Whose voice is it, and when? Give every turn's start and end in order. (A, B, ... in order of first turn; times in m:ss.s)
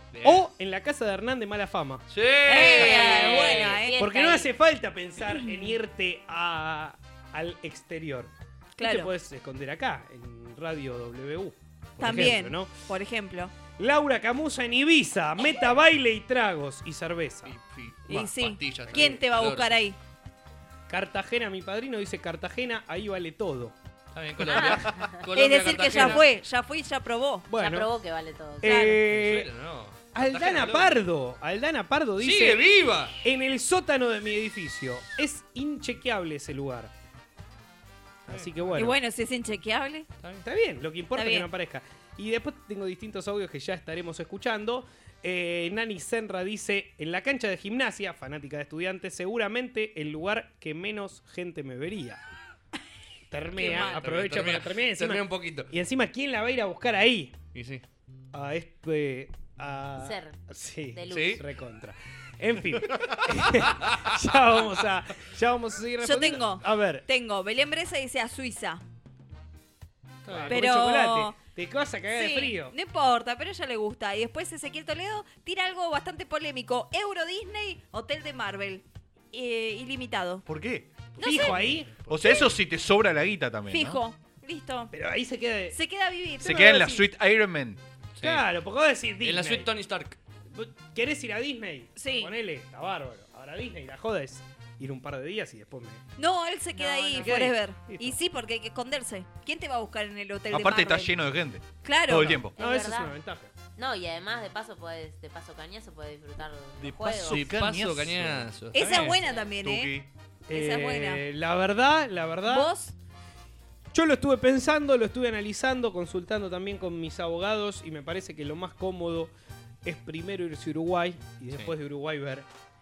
0:00.1-0:00.4 A
0:00.2-0:02.0 B
0:02.1-0:03.8 A
0:02.4-0:04.0 C
0:02.8-0:04.5 D
0:04.0-0:12.7 B
0:05.3-0:05.7 C
0:08.8-0:09.1 C
0:12.0-0:13.5 C
0:13.8-0:17.5 B
0:17.4-0:19.8 A
0:18.1-0:20.0 C
0:18.9-0:19.2 B
0:20.9-0:23.7 B
0:24.1-0:26.2 A
0:24.5-0:25.2 D
0:24.5-0:24.8 B
0:25.4-0:27.5 C
0:25.9-0:26.2 B
0:27.5-0:27.9 B
0:27.5-0:28.9 D
0:28.6-0:29.5 B
0:28.6-0:28.9 C
0:28.9-0:31.0 A
0:30.1-0:32.6 B
0:32.2-0:33.2 A
0:33.2-0:36.9 B
0:38.3-0:38.9 A
0:38.3-0:39.0 B
0:38.8-0:40.1 C
0:40.4-0:52.2 B
0:41.1-0:41.4 C
0:53.3-0:57.3 B
0:53.6-0:53.9 C
0:53.6-0:55.7 A
0:57.5-0:57.8 A
0:58.3-1:07.0 B
1:00.0-1:00.4 D
1:00.9-1:01.4 D
1:01.1-1:01.4 A
1:06.0-1:08.8 C
1:10.2-1:10.6 A
1:10.3-1:12.7 B
1:10.5-1:11.3 C
1:12.1-1:20.4 C
1:20.4-1:20.9 E
1:21.2-1:22.5 C
1:21.2-1:22.0 B
1:22.1-1:24.0 E
1:23.7-1:24.9 C
1:24.9-1:25.8 B
1:25.7-1:27.0 C
1:26.4-1:27.8 E
1:26.5-1:27.0 B
1:28.2-1:28.4 A
1:28.2-1:29.7 B
1:29.2-1:30.2 A
1:30.5-1:36.0 B
1:32.0-1:32.3 C
1:36.2-1:41.1 C
1:36.8-1:38.1 B
1:36.9-1:37.2 D
1:40.5-1:42.5 E
1:41.8-1:42.4 C
1:42.6-1:43.1 D
1:42.6-1:43.5 B
1:43.8-1:47.4 D
1:46.8-1:48.5 E
1:47.3-1:49.2 A
1:48.7-1:49.9 C
1:49.1-1:49.5 D
1:49.6-1:50.1 E
1:50.5-1:52.7 B
1:50.5-1:51.2 C
1:52.4-1:52.9 C
1:53.9-1:59.3 B
1:59.8-2:02.4 B